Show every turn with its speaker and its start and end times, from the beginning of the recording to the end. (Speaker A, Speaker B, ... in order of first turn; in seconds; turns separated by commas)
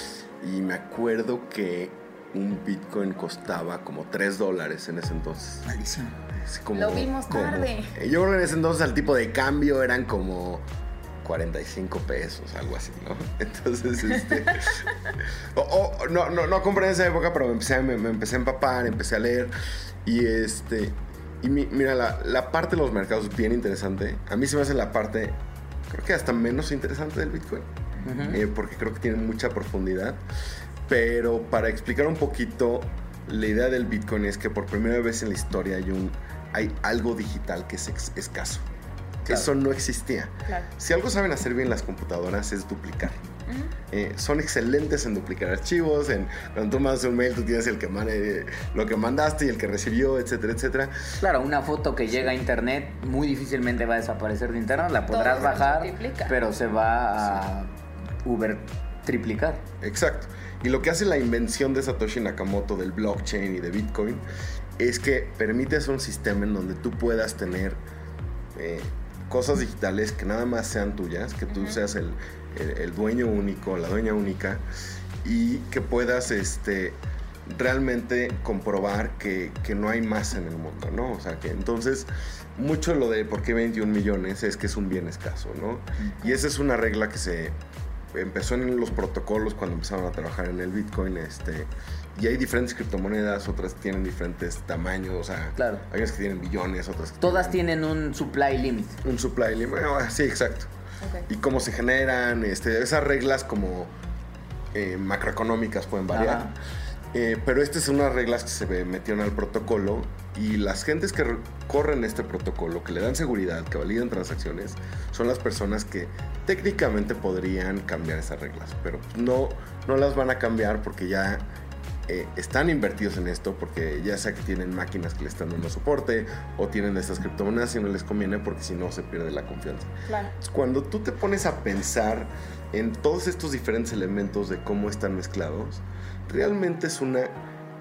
Speaker A: 0.4-5.8, Speaker B: 5.7-6.1, Speaker A: 6.4-10.7, Speaker C: 6.7-7.9, Speaker A: 11.2-14.9, Speaker A: 15.6-19.5, Speaker A: 20.1-25.4, Speaker A: 25.9-27.7, Speaker B: 28.1-28.4, Speaker A: 28.3-30.2, Speaker A: 30.9-38.6, Speaker A: 39.3-43.2, Speaker C: 43.5-43.7, Speaker A: 43.9-51.0, Speaker B: 51.2-57.7, Speaker C: 55.1-56.4, Speaker B: 58.2-59.6, Speaker A: 59.8-64.2, Speaker A: 64.8-67.8, Speaker A: 68.5-74.6, Speaker C: 71.5-71.8, Speaker A: 75.2-87.6, Speaker A: 88.1-97.6, Speaker B: 95.6-95.8, Speaker B: 97.2-99.0, Speaker A: 99.0-100.7, Speaker A: 101.3-103.9, Speaker A: 104.7-106.5, Speaker B: 106.1-106.5, Speaker A: 107.1-121.5, Speaker A: 122.1-129.9, Speaker C: 130.1-130.3, Speaker A: 130.4-137.4